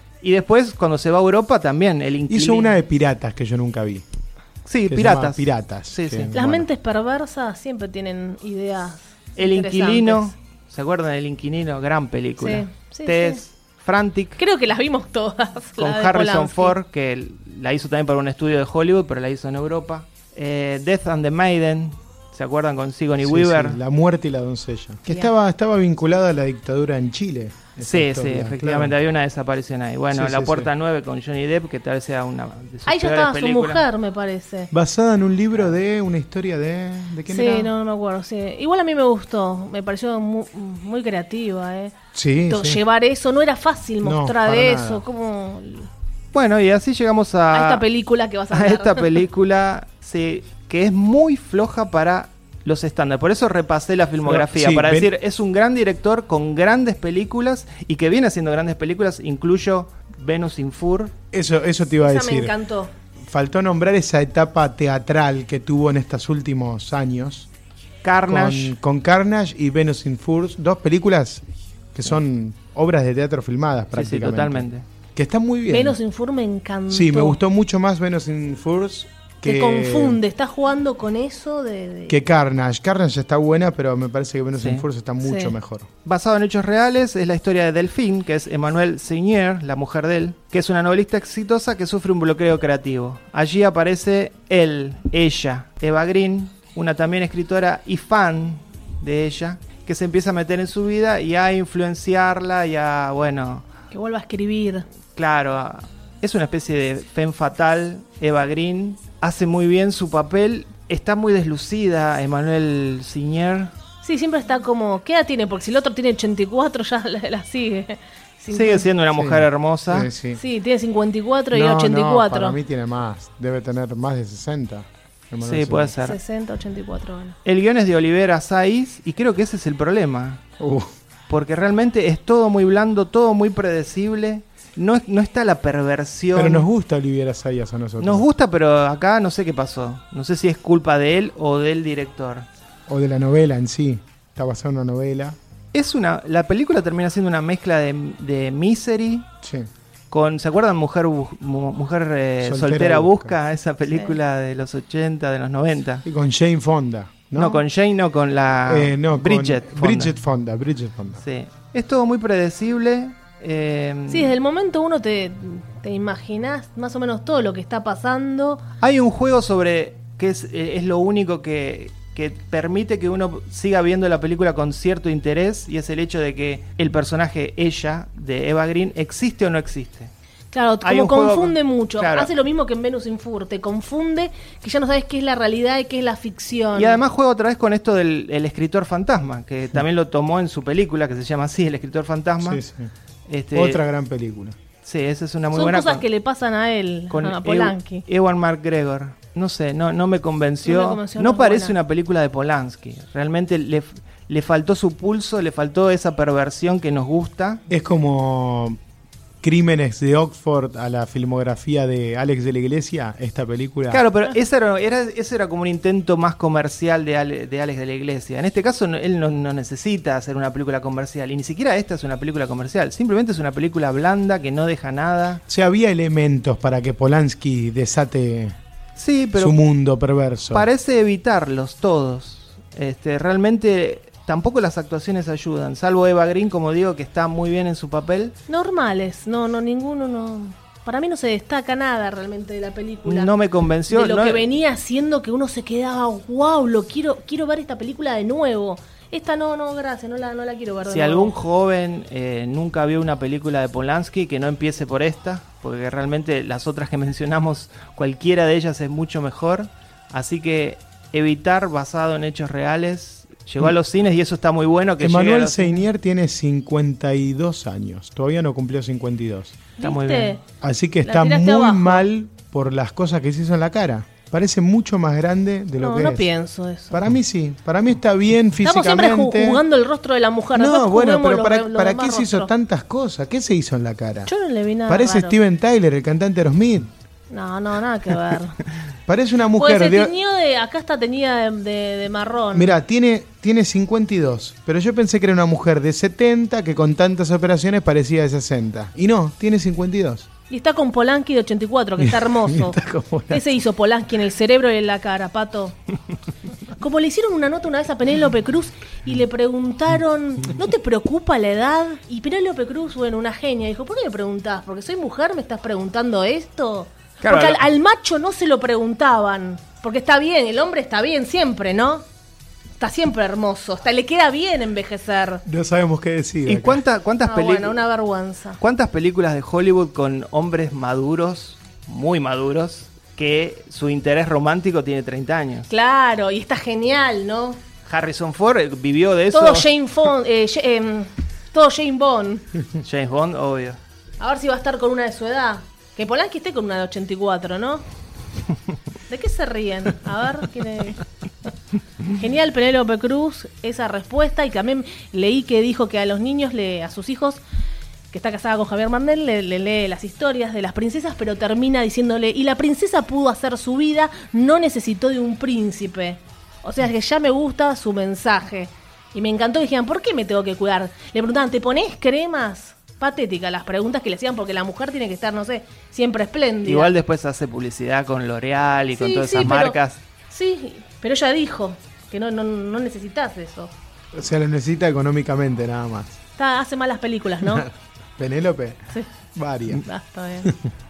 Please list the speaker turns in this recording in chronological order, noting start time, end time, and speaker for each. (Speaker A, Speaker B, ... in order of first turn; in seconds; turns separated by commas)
Speaker A: 0.2-2.8, Speaker B: 2.3-4.0, Speaker A: 4.6-6.3, Speaker B: 4.9-6.7, Speaker C: 6.3-10.3, Speaker A: 9.4-14.4, Speaker C: 12.4-13.4, Speaker C: 14.4-16.8, Speaker A: 15.8-23.8, Speaker B: 23.2-28.9, Speaker A: 27.8-33.8, Speaker B: 30.1-30.7, Speaker C: 32.9-34.7, Speaker B: 34.7-37.7, Speaker C: 37.3-41.9, Speaker B: 42.1-42.8, Speaker C: 42.5-45.9, Speaker B: 44.0-45.0, Speaker A: 46.3-47.8, Speaker C: 47.5-49.2, Speaker A: 48.5-61.1, Speaker B: 54.2-55.1, Speaker B: 61.3-62.5, Speaker C: 62.0-62.9, Speaker B: 63.3-67.5, Speaker A: 68.0-68.7, Speaker B: 68.3-76.0, Speaker A: 73.9-74.8, Speaker C: 75.7-77.4, Speaker B: 76.9-80.2, Speaker C: 79.4-82.2, Speaker B: 82.1-85.9, Speaker A: 84.6-84.8, Speaker C: 85.2-85.5, Speaker A: 86.0-103.7, Speaker C: 103.9-104.8, Speaker A: 105.1-113.7, Speaker C: 114.0-118.9, Speaker A: 118.5-120.1, Speaker B: 119.1-120.4, Speaker C: 120.3-122.6, Speaker B: 121.5-125.9, Speaker A: 125.4-126.2, Speaker C: 126.0-127.3, Speaker A: 127.4-130.4, Speaker B: 130.6-130.9, Speaker A: 131.3-136.7, Speaker B: 136.3-138.2, Speaker A: 138.0-142.4, Speaker B: 142.9-145.4, Speaker A: 145.7-149.3, Speaker B: 149.4-149.7, Speaker A: 150.1-156.0, Speaker B: 152.4-153.3, Speaker C: 153.9-154.2, Speaker B: 156.0-157.6, Speaker A: 157.3-160.1, Speaker B: 158.7-161.2, Speaker A: 161.2-164.3, Speaker C: 164.1-168.6, Speaker A: 168.8-180.1, Speaker C: 180.5-187.0, Speaker A: 180.8-182.3, Speaker A: 186.7-192.6, Speaker B: 192.4-192.9, Speaker A: 193.3-193.8, Speaker B: 193.5-194.6, Speaker A: 194.8-196.0, Speaker C: 195.5-198.0, Speaker A: 197.1-207.6, Speaker C: 200.6-201.8, Speaker B: 207.7-208.8, Speaker B: 209.4-214.0, Speaker A: 213.9-225.4, Speaker B: 225.5-228.6, Speaker A: 228.9-229.6, Speaker B: 229.3-230.7, Speaker A: 230.5-238.3, Speaker C: 238.5-243.3, Speaker A: 243.1-244.5, Speaker C: 243.9-251.3, Speaker A: 250.8-265.8, Speaker B: 265.0-269.6, Speaker C: 269.8-270.4, Speaker A: 269.8-270.4, Speaker B: 270.6-276.3, Speaker C: 271.0-272.1, Speaker C: 275.8-277.0, Speaker B: 276.9-279.6, Speaker C: 278.6-282.5, Speaker B: 280.5-284.3, Speaker C: 284.3-285.4, Speaker B: 284.9-286.9, Speaker C: 287.3-288.6, Speaker B: 289.1-290.1, Speaker C: 289.6-292.7, Speaker B: 292.5-300.3, Speaker C: 300.5-305.7, Speaker B: 302.0-303.5, Speaker C: 306.8-322.0, Speaker A: 317.2-317.6, Speaker C: 322.8-325.4, Speaker B: 325.4-326.8, Speaker A: 326.4-327.8, Speaker C: 327.2-328.6, Speaker A: 328.6-335.7, Speaker C: 335.7-337.6, Speaker A: 337.9-339.7, Speaker C: 339.3-342.5, Speaker A: 342.8-343.8, Speaker C: 344.2-347.8, Speaker C: 349.1-351.0, Speaker C: 352.1-357.4, Speaker C: 358.1-376.9, Speaker A: 376.6-380.0, Speaker C: 379.0-379.8, Speaker C: 380.3-383.7, Speaker B: 384.1-386.2, Speaker C: 386.4-387.7, Speaker B: 388.2-388.8, Speaker B: 389.3-389.8, Speaker C: 389.7-390.5